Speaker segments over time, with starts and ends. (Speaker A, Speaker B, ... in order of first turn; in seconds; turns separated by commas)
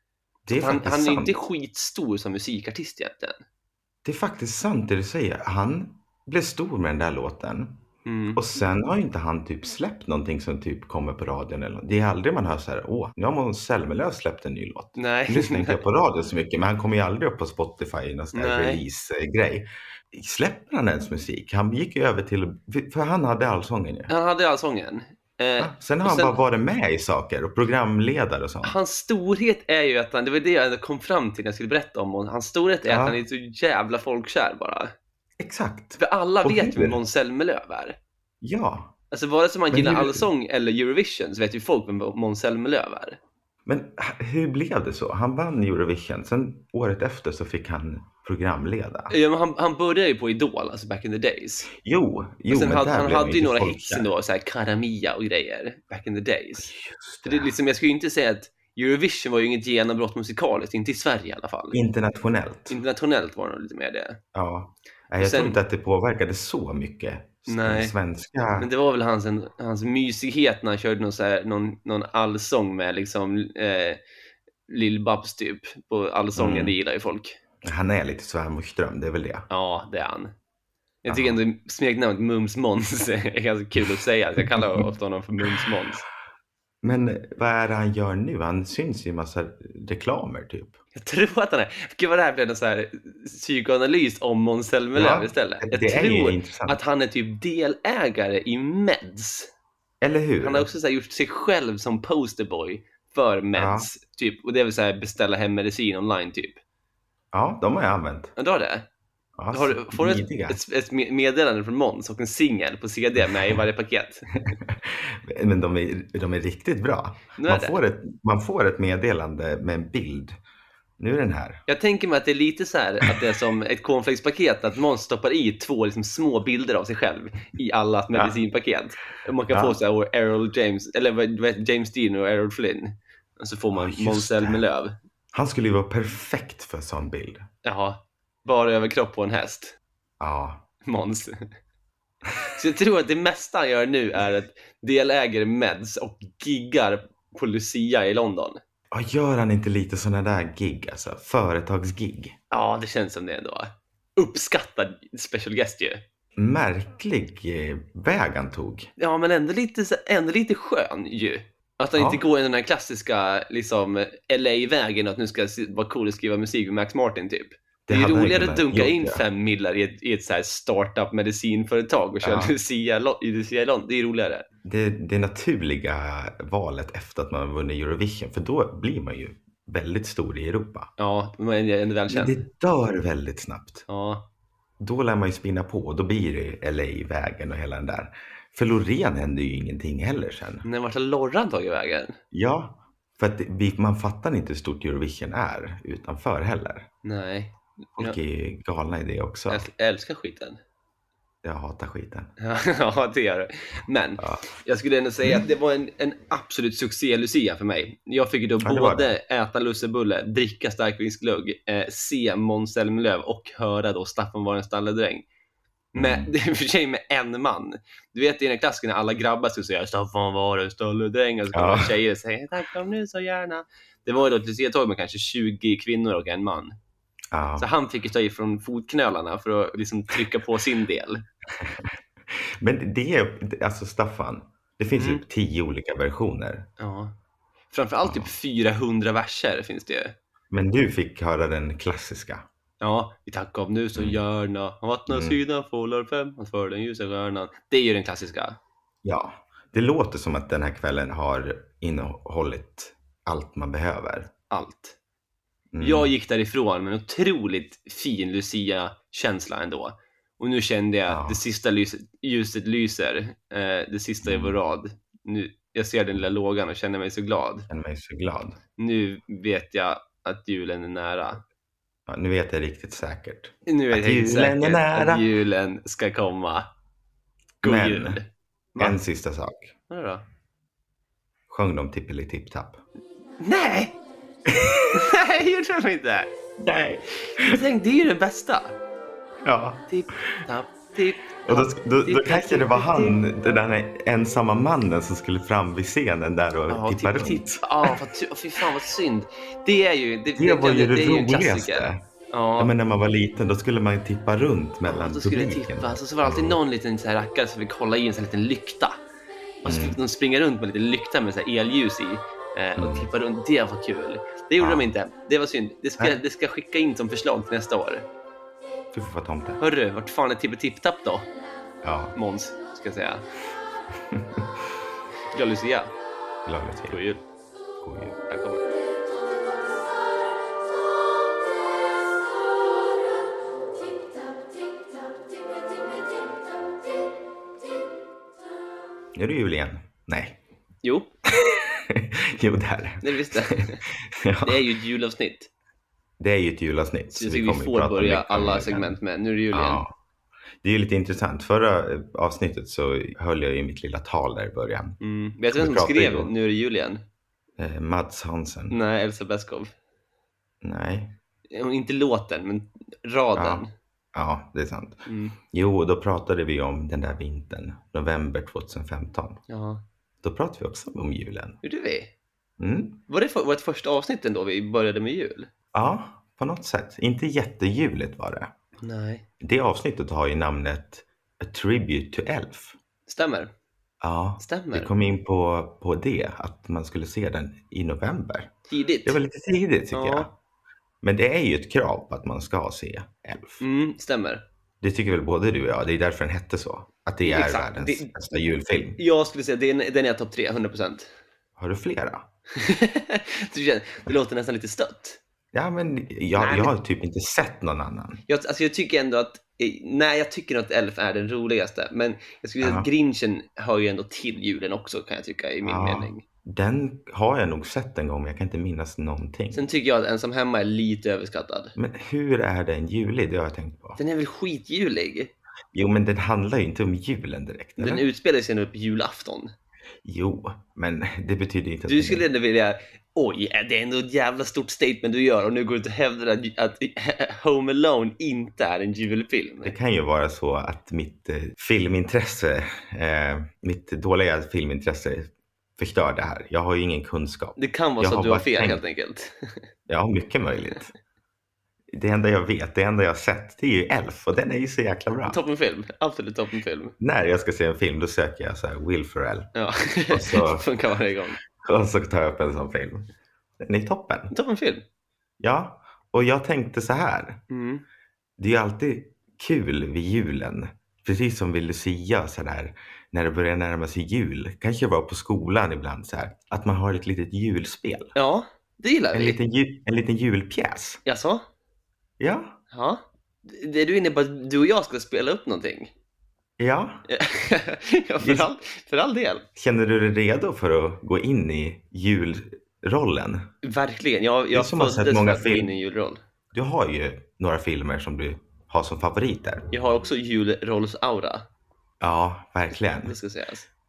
Speaker A: 0.5-1.4, Speaker B: 0.5-3.4, Speaker A: 4.0-7.8, Speaker B: 8.0-8.4, Speaker A: 8.3-24.1, Speaker B: 14.9-15.8, Speaker B: 18.3-18.8, Speaker B: 24.1-26.4, Speaker A: 25.6-28.8, Speaker B: 28.6-34.9, Speaker A: 32.9-33.2, Speaker A: 35.4-37.0, Speaker B: 36.0-38.0, Speaker A: 38.4-38.9, Speaker B: 39.1-43.2, Speaker A: 39.7-40.3, Speaker A: 43.6-49.1, Speaker B: 49.1-51.7, Speaker A: 51.7-54.1, Speaker B: 52.5-56.7, Speaker A: 56.6-57.5, Speaker B: 57.2-61.8, Speaker A: 61.7-62.8, Speaker B: 62.7-64.2, Speaker A: 64.3-68.7, Speaker B: 65.2-65.6, Speaker B: 67.5-67.9, Speaker B: 68.6-74.0, Speaker B: 74.7-77.4, Speaker A: 76.4-76.7, Speaker A: 77.6-79.5, Speaker B: 79.5-80.3, Speaker B: 81.0-86.0, Speaker A: 81.1-81.4, Speaker A: 86.8-90.8, Speaker B: 90.9-99.5, Speaker A: 94.9-96.8, Speaker A: 100.0-100.7, Speaker B: 100.4-106.6, Speaker A: 103.5-103.9, Speaker A: 107.3-108.3, Speaker B: 108.4-108.9, Speaker A: 109.4-110.6, Speaker B: 109.5-114.3, Speaker A: 114.5-120.4, Speaker B: 117.4-117.8, Speaker A: 121.0-121.6, Speaker B: 121.7-134.9, Speaker A: 129.5-129.8, Speaker A: 133.7-134.6, Speaker A: 135.3-137.5, Speaker B: 137.6-139.8, Speaker A: 140.2-140.6, Speaker B: 140.8-141.4, Speaker B: 142.5-148.6, Speaker A: 148.9-152.3, Speaker B: 152.5-156.0, Speaker A: 156.4-158.9, Speaker B: 159.0-174.4, Speaker A: 161.9-162.2, Speaker A: 167.9-169.2, Speaker A: 172.2-172.5, Speaker A: 174.6-180.9, Speaker B: 181.0-182.4, Speaker A: 182.1-183.8, Speaker B: 183.9-184.3, Speaker A: 184.8-190.6, Speaker B: 190.6-192.2, Speaker A: 192.3-196.9, Speaker B: 197.0-198.2, Speaker A: 198.0-199.7, Speaker B: 199.5-200.6, Speaker A: 201.4-202.3, Speaker B: 202.4-215.2, Speaker A: 204.2-204.5, Speaker A: 208.6-209.2, Speaker B: 215.9-226.8, Speaker A: 215.9-216.3, Speaker A: 221.5-221.9, Speaker A: 227.3-227.7, Speaker B: 227.6-231.2, Speaker A: 231.6-236.7, Speaker B: 235.0-235.2, Speaker B: 236.8-237.1, Speaker B: 237.7-240.1, Speaker A: 238.0-238.3, Speaker A: 240.5-242.5, Speaker B: 242.8-248.6, Speaker A: 243.9-244.2, Speaker A: 245.1-245.4, Speaker A: 249.0-254.3, Speaker B: 254.5-255.0, Speaker A: 255.7-256.1, Speaker B: 255.8-267.7, Speaker A: 261.1-261.4, Speaker A: 264.2-264.6, Speaker A: 267.7-268.6, Speaker B: 268.8-271.4, Speaker A: 272.1-275.3, Speaker B: 273.7-276.7, Speaker B: 277.6-279.0, Speaker A: 277.6-278.2, Speaker A: 278.8-279.7, Speaker B: 279.9-280.2, Speaker A: 281.5-282.8, Speaker B: 283.4-283.9, Speaker A: 284.5-285.0, Speaker B: 284.9-286.3, Speaker A: 286.6-287.6, Speaker B: 287.2-288.8, Speaker A: 289.4-290.4, Speaker B: 289.9-293.2, Speaker A: 291.4-298.0, Speaker B: 296.7-302.7, Speaker A: 300.4-302.0, Speaker A: 302.6-306.6, Speaker B: 304.9-309.0, Speaker B: 309.6-318.1, Speaker A: 309.6-310.0, Speaker A: 312.8-313.1, Speaker A: 314.6-314.9, Speaker A: 318.9-319.6, Speaker B: 319.6-321.3, Speaker A: 321.8-322.1, Speaker B: 322.1-323.2, Speaker A: 324.0-324.6, Speaker B: 325.3-325.9, Speaker A: 326.4-327.0, Speaker B: 326.9-327.2, Speaker A: 327.8-328.2, Speaker B: 328.3-328.6, Speaker A: 339.1-340.4, Speaker B: 340.8-341.1, Speaker A: 341.3-344.7, Speaker B: 343.0-343.8, Speaker B: 344.4-345.5, Speaker A: 346.2-349.0, Speaker B: 347.1-349.8, Speaker A: 349.5-349.9, Speaker A: 350.6-355.0, Speaker B: 355.0-357.0, Speaker A: 355.5-356.3, Speaker A: 357.6-358.8, Speaker B: 358.7-359.7, Speaker A: 360.6-361.1, Speaker B: 361.5-363.7, Speaker A: 363.4-369.4, Speaker B: 365.1-365.4, Speaker B: 369.5-369.8, Speaker A: 370.2-371.6, Speaker B: 371.6-372.1, Speaker A: 372.6-373.0, Speaker B: 373.1-375.5, Speaker A: 375.7-378.5, Speaker B: 378.8-379.2, Speaker A: 379.4-382.8, Speaker B: 383.1-383.5, Speaker A: 384.0-388.5, Speaker B: 384.4-384.9, Speaker B: 388.7-389.2, Speaker A: 389.0-390.3, Speaker B: 389.9-390.3, Speaker A: 391.0-393.6, Speaker B: 393.6-394.4, Speaker A: 394.8-399.0, Speaker B: 397.2-398.1, Speaker B: 399.0-401.1, Speaker A: 401.6-402.3, Speaker B: 402.6-405.2, Speaker A: 405.5-408.2, Speaker B: 406.4-406.7, Speaker B: 408.3-416.2, Speaker A: 412.6-412.9, Speaker A: 415.6-419.6, Speaker B: 419.5-421.7, Speaker A: 421.8-424.0, Speaker B: 424.0-425.3, Speaker A: 425.7-428.0, Speaker B: 427.8-429.5, Speaker A: 430.0-432.2, Speaker B: 431.9-439.7, Speaker A: 439.6-448.8, Speaker B: 447.6-449.6, Speaker A: 449.9-450.9, Speaker A: 451.9-455.4, Speaker B: 455.3-456.9, Speaker A: 457.0-459.5, Speaker B: 459.5-461.4, Speaker A: 460.1-460.7, Speaker A: 461.5-464.3, Speaker B: 464.3-464.8, Speaker A: 465.4-467.4, Speaker B: 467.5-467.8, Speaker A: 468.4-478.1, Speaker B: 478.1-479.4, Speaker A: 479.1-481.0, Speaker B: 481.0-481.4, Speaker A: 482.2-482.6, Speaker B: 482.7-485.9, Speaker A: 486.6-487.1, Speaker B: 487.1-489.4, Speaker A: 488.2-488.5, Speaker A: 489.6-493.5, Speaker B: 493.6-496.2, Speaker A: 494.5-495.7, Speaker A: 496.5-499.7, Speaker B: 499.7-501.4, Speaker A: 502.0-503.1, Speaker B: 502.9-503.7